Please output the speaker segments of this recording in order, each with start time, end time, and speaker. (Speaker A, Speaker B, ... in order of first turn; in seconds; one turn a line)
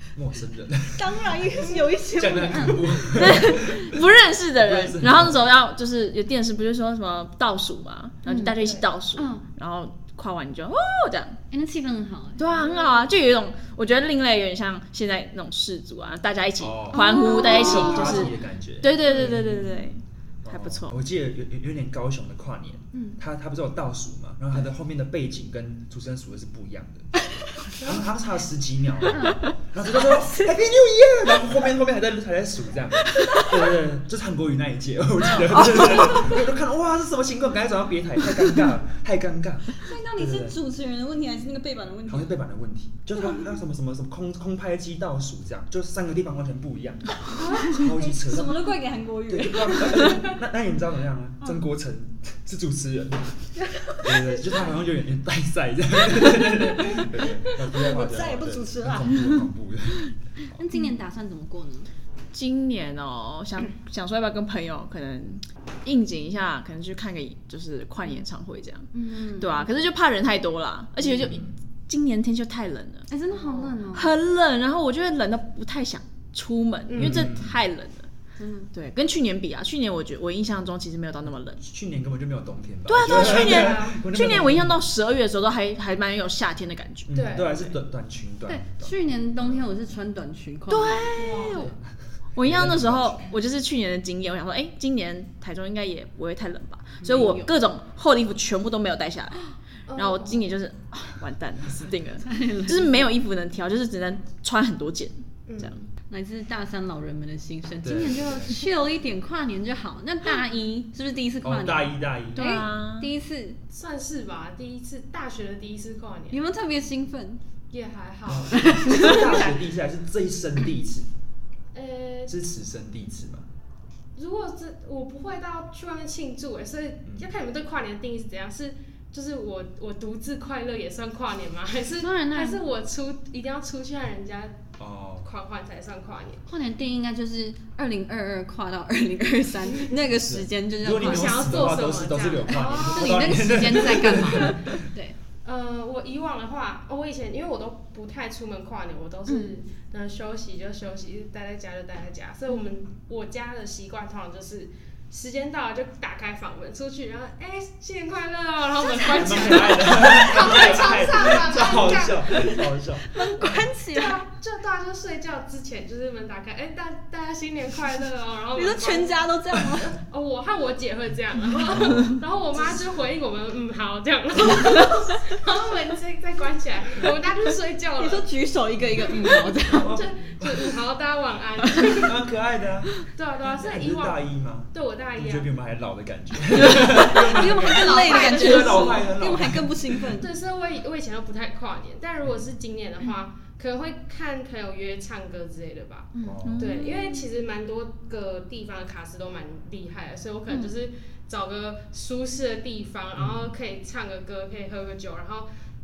Speaker A: 0.1-5.5
Speaker B: 0.9-3.2
Speaker C: 3.1-11.4
Speaker B: 8.2-8.6
Speaker D: 8.5-8.9
Speaker B: 9.2-9.4
Speaker B: 11.5-12.5
Speaker C: 12.4-20.9
Speaker D: 12.5-13.0
Speaker A: 16.6-19.9
Speaker B: 16.9-18.3
Speaker D: 17.4-18.3
Speaker A: 20.4-40.6
Speaker B: 29.1-30.5
Speaker B: 39.8-42.4
Speaker A: 42.1-53.5
Speaker B: 47.3-50.3
Speaker B: 53.6-54.3
Speaker A: 54.0-60.6
Speaker B: 57.5-59.3
Speaker B: 60.5-61.9
Speaker C: 62.3-73.1
Speaker B: 68.9-69.7
Speaker A: 71.2-71.5
Speaker B: 73.1-74.1
Speaker D: 73.3-73.8
Speaker C: 73.9-78.1
Speaker D: 76.9-77.3
Speaker A: 77.0-77.6
Speaker B: 78.4-78.7
Speaker C: 78.7-81.6
Speaker A: 81.6-84.8
Speaker C: 82.9-87.2
Speaker D: 83.0-84.0
Speaker A: 87.1-88.9
Speaker D: 87.1-87.7
Speaker B: 88.5-91.1
Speaker C: 90.7-91.7
Speaker D: 91.1-91.7
Speaker C: 92.4-105.8
Speaker A: 92.4-93.2
Speaker B: 97.0-97.5
Speaker D: 99.9-100.5
Speaker B: 102.2-103.1
Speaker D: 105.5-105.8
Speaker A: 105.6-105.9
Speaker B: 106.1-113.6
Speaker A: 107.8-108.6
Speaker A: 111.4-112.5
Speaker C: 112.4-113.1
Speaker D: 113.7-116.4
Speaker B: 116.3-117.4
Speaker D: 117.7-119.4
Speaker A: 118.2-121.1
Speaker B: 118.6-119.5
Speaker D: 121.7-122.3
Speaker A: 122.3-123.5
Speaker D: 124.2-134.6
Speaker B: 132.0-132.6
Speaker A: 134.8-135.3
Speaker D: 135.2-136.4
Speaker B: 136.5-141.6
Speaker A: 140.1-144.8
Speaker D: 140.9-143.4
Speaker B: 142.7-145.2
Speaker D: 145.4-162.6
Speaker B: 149.3-149.5
Speaker B: 158.9-159.3
Speaker A: 159.1-163.6
Speaker B: 163.1-164.2
Speaker D: 163.9-169.2
Speaker B: 168.6-169.9
Speaker D: 169.9-178.3
Speaker A: 171.7-172.1
Speaker B: 178.0-180.0
Speaker A: 179.7-180.7
Speaker D: 179.8-182.2
Speaker A: 181.9-190.2
Speaker D: 183.1-185.5
Speaker B: 186.7-190.3
Speaker D: 187.6-189.0
Speaker D: 190.2-205.5
Speaker B: 196.1-196.9
Speaker A: 196.2-196.7
Speaker C: 196.4-197.2
Speaker A: 203.1-203.5